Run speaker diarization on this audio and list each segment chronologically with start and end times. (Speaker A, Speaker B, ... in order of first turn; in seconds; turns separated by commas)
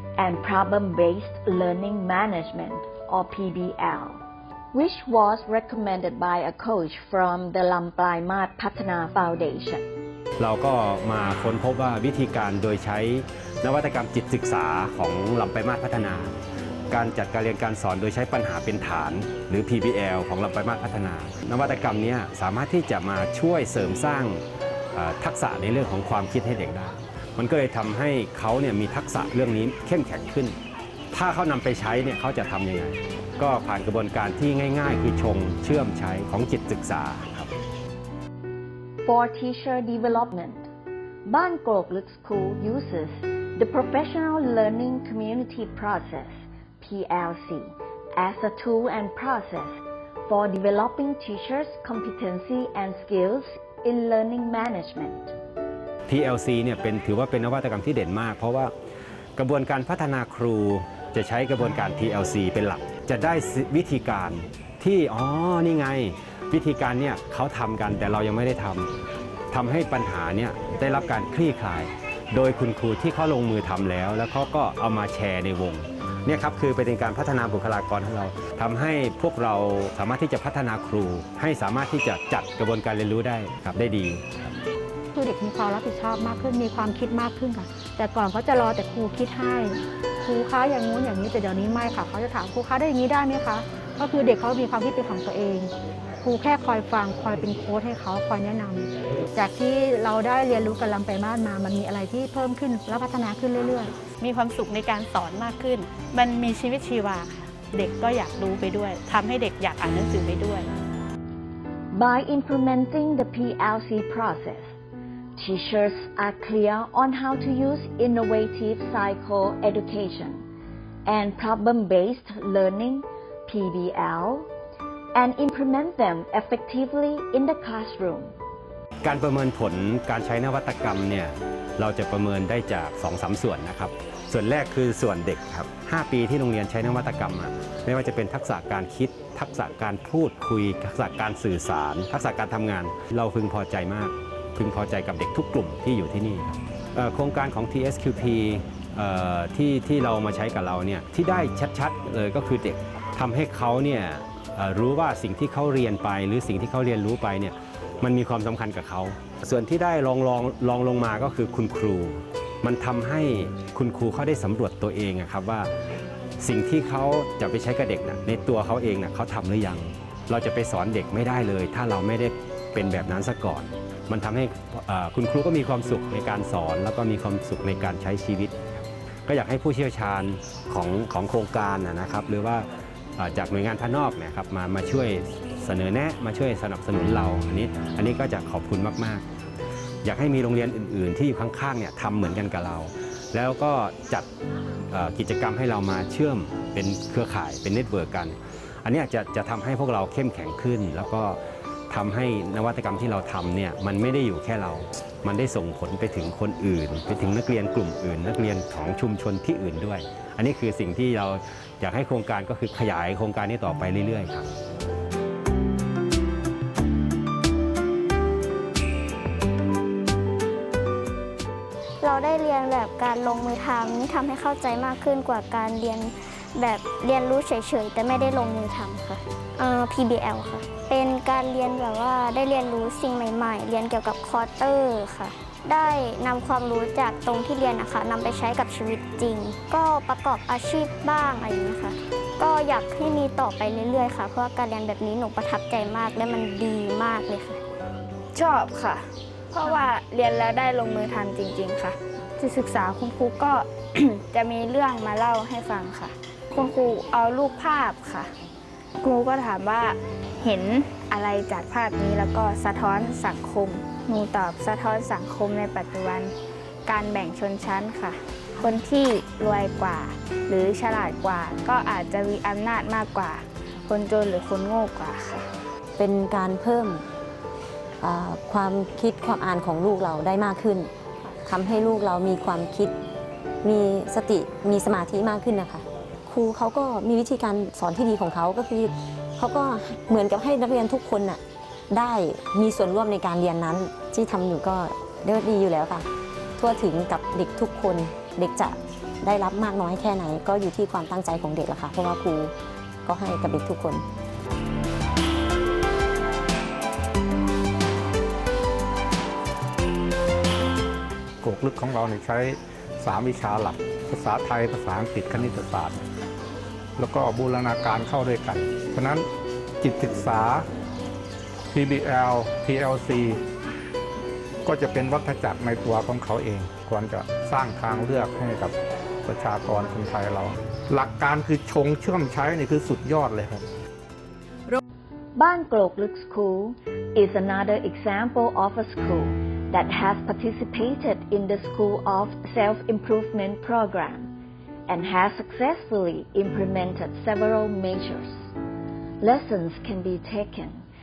Speaker A: 0.2-4.2, Speaker A: 4.7-9.8, Speaker B: 10.4-16.3, Speaker B: 16.9-24.4, Speaker B: 24.9-30.6, Speaker B: 31.1-37.5, Speaker A: 39.0-40.7, Speaker A: 41.3-55.3, Speaker B: 56.1-58.7, Speaker B: 59.4-68.9, Speaker B: 69.5-84.2, Speaker C: 85.1-95.7, Speaker C: 96.2-103.9, Speaker D: 104.2-110.7, Speaker A: 111.9-114.7, Speaker A: 115.4-120.4, Speaker A: 121.1-124.5, Speaker A: 125.1-128.3, Speaker B: 129.0-165.7, Speaker B: 166.4-189.2, Speaker B: 190.0-194.3, Speaker B: 194.9-201.4, Speaker B: 201.9-214.5, Speaker E: 222.0-247.6, Speaker F: 248.3-258.3, Speaker F: 259.0-275.5, Speaker G: 276.0-277.0, Speaker G: 278.0-282.9, Speaker G: 283.6-291.4, Speaker G: 291.9-296.1, Speaker G: 296.6-302.5, Speaker G: 303.1-304.0, Speaker H: 311.4-316.0, Speaker H: 317.0-319.3, Speaker H: 319.8-320.6, Speaker H: 321.7-323.4, Speaker H: 324.7-333.6, Speaker A: 335.4-344.3, Speaker A: 344.9-348.5, Speaker A: 349.2-350.9